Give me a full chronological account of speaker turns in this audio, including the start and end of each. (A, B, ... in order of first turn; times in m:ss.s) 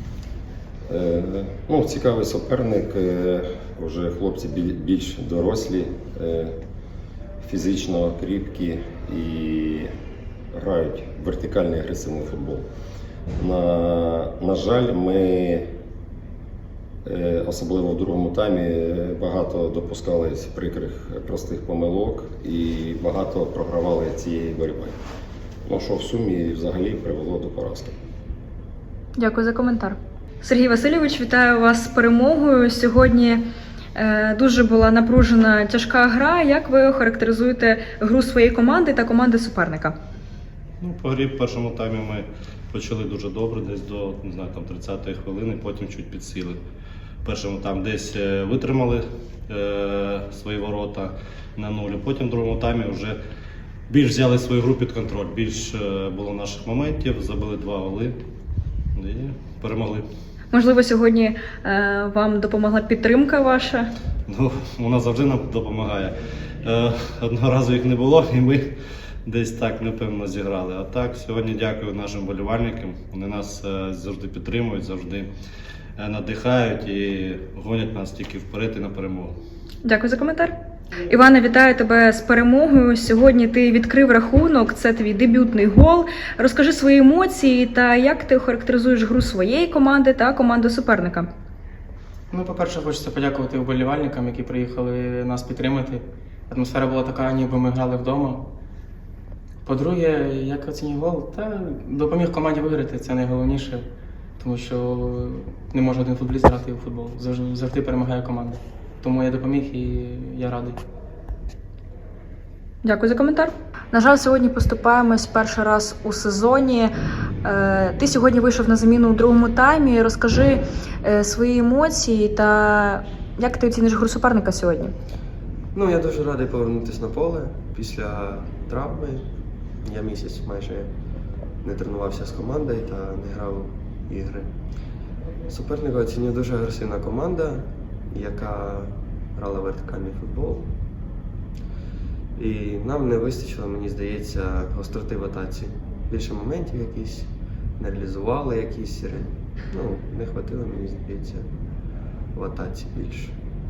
0:00.9-0:06.5 A
0:07.4-0:09.9 A
0:10.5-0:12.7 A
0:13.4-0:15.7 A
0:17.0-0:25.0 A
0:25.7-0:28.0 A
0:29.2-0:33.4 B
0:34.0-0:40.0 B
0:40.8-0:46.6 C
0:47.2-0:53.2 C
0:53.9-0:58.1 C
0:59.0-1:00.1 C
1:00.5-1:03.9 B
1:04.3-1:08.7 C
1:09.3-1:15.3 C
1:16.0-1:19.4 C
1:19.8-1:20.5 B
1:21.1-1:31.3 B
1:32.3-1:38.4 D
1:39.6-1:43.9 D
1:44.4-1:50.8 D
1:52.8-1:56.9 B
1:57.4-2:04.9 B
2:05.7-2:09.3 E
2:09.8-2:10.9 E
2:11.6-2:14.5 E
2:15.5-2:20.7 E
2:22.4-2:31.5 E
2:32.4-2:33.3 E